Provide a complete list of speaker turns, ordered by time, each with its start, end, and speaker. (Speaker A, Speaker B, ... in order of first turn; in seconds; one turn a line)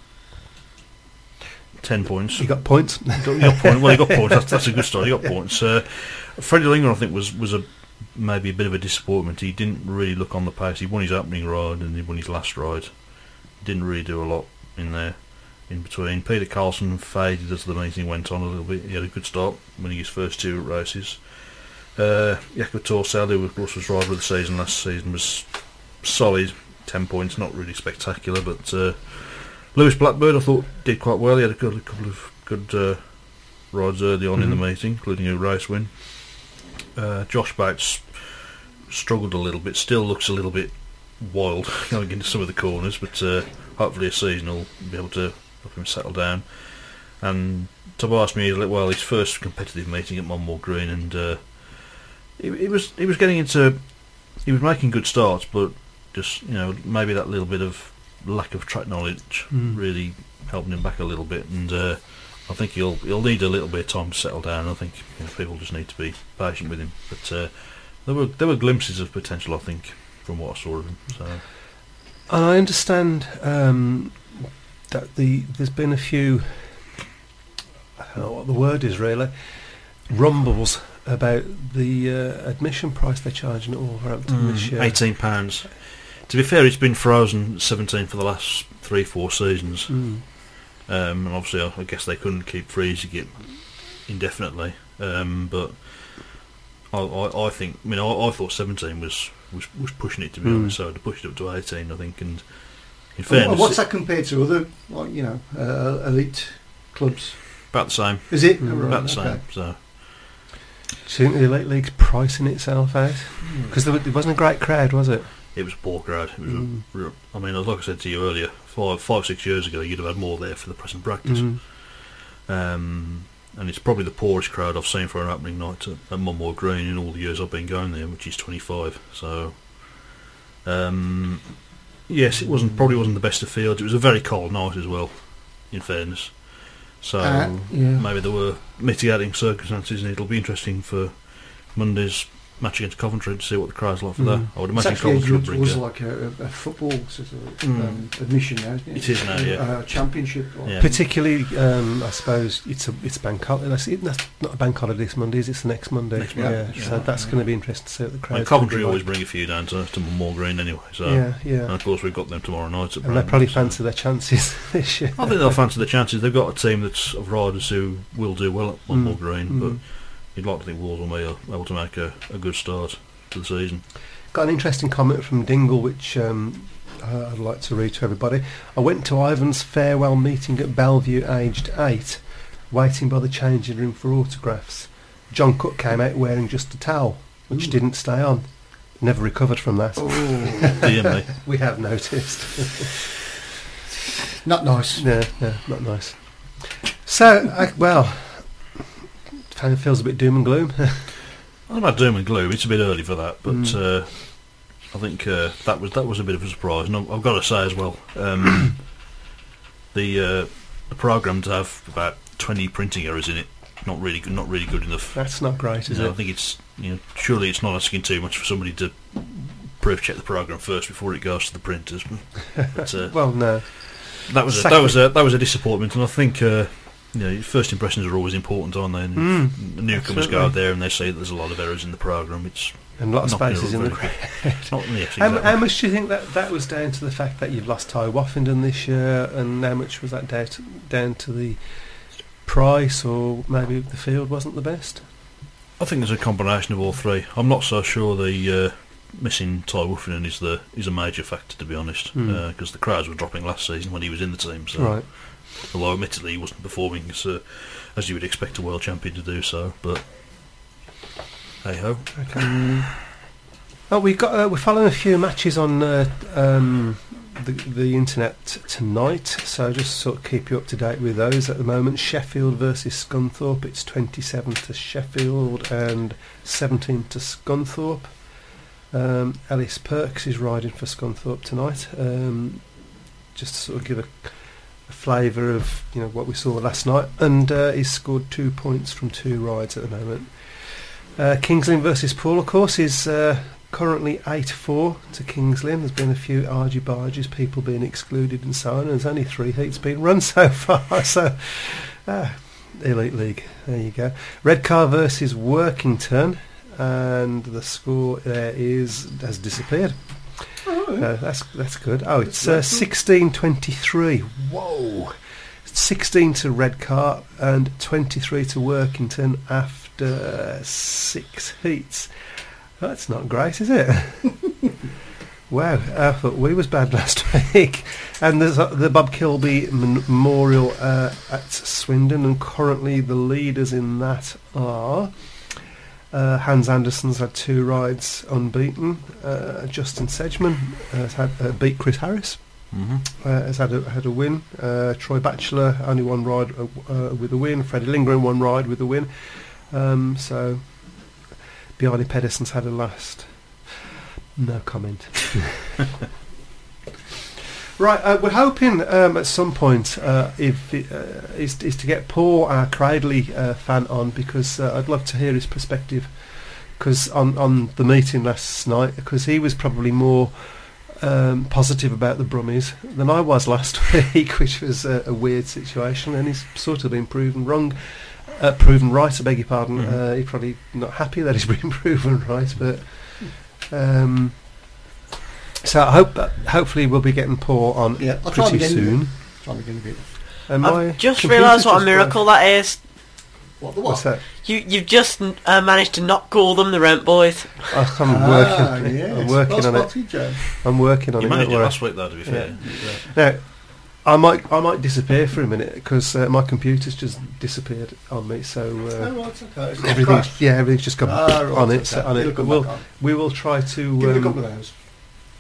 Speaker A: 1.8-71.5
Speaker B: 2.4-4.6
Speaker B: 34.4-34.6
Speaker B: 59.5-59.8
Speaker B: 72.3-77.0
Speaker B: 78.0-85.5
Speaker A: 84.3-103.8
Speaker B: 89.9-90.2
Speaker B: 100.4-100.8
Speaker C: 103.3-109.4
Speaker A: 107.7-109.8
Speaker B: 108.6-109.0
Speaker B: 111.0-115.8
Speaker A: 113.4-113.8
Speaker A: 115.5-145.8
Speaker B: 116.4-116.8
Speaker B: 121.2-121.6
Speaker C: 137.2-138.1
Speaker B: 144.2-144.5
Speaker C: 144.7-151.0
Speaker A: 147.6-151.0
Speaker B: 150.8-159.1
Speaker A: 156.2-157.5
Speaker C: 156.3-157.4
Speaker A: 158.3-163.8
Speaker B: 161.0-162.4
Speaker B: 163.0-165.7
Speaker A: 165.2-173.9
Speaker B: 168.9-169.8
Speaker B: 174.3-192.9
Speaker C: 190.0-190.8
Speaker A: 190.8-191.3
Speaker C: 194.4-195.1
Speaker B: 195.0-198.9
Speaker B: 199.5-201.2
Speaker A: 201.7-209.2
Speaker B: 203.5-204.0
Speaker A: 209.9-235.7
Speaker B: 215.1-216.2
Speaker B: 223.1-225.0
Speaker B: 229.2-230.6
Speaker B: 233.0-245.1
Speaker A: 245.8-260.7
Speaker B: 252.1-252.4
Speaker B: 254.8-255.1
Speaker A: 261.6-262.8
Speaker B: 262.2-262.6
Speaker B: 263.9-324.6
Speaker C: 310.6-311.1
Speaker C: 312.3-312.9
Speaker B: 325.5-335.6
Speaker B: 336.1-353.7
Speaker A: 342.7-343.0
Speaker B: 354.4-355.7
Speaker B: 357.8-384.7
Speaker A: 379.8-380.0
Speaker B: 385.6-389.1
Speaker C: 388.0-390.4
Speaker B: 390.5-392.2
Speaker D: 390.6-392.9
Speaker C: 393.6-394.2
Speaker B: 393.9-394.2
Speaker D: 394.2-397.8
Speaker B: 397.7-415.1
Speaker C: 398.1-400.5
Speaker A: 401.2-403.0
Speaker C: 402.6-403.1
Speaker C: 409.0-414.7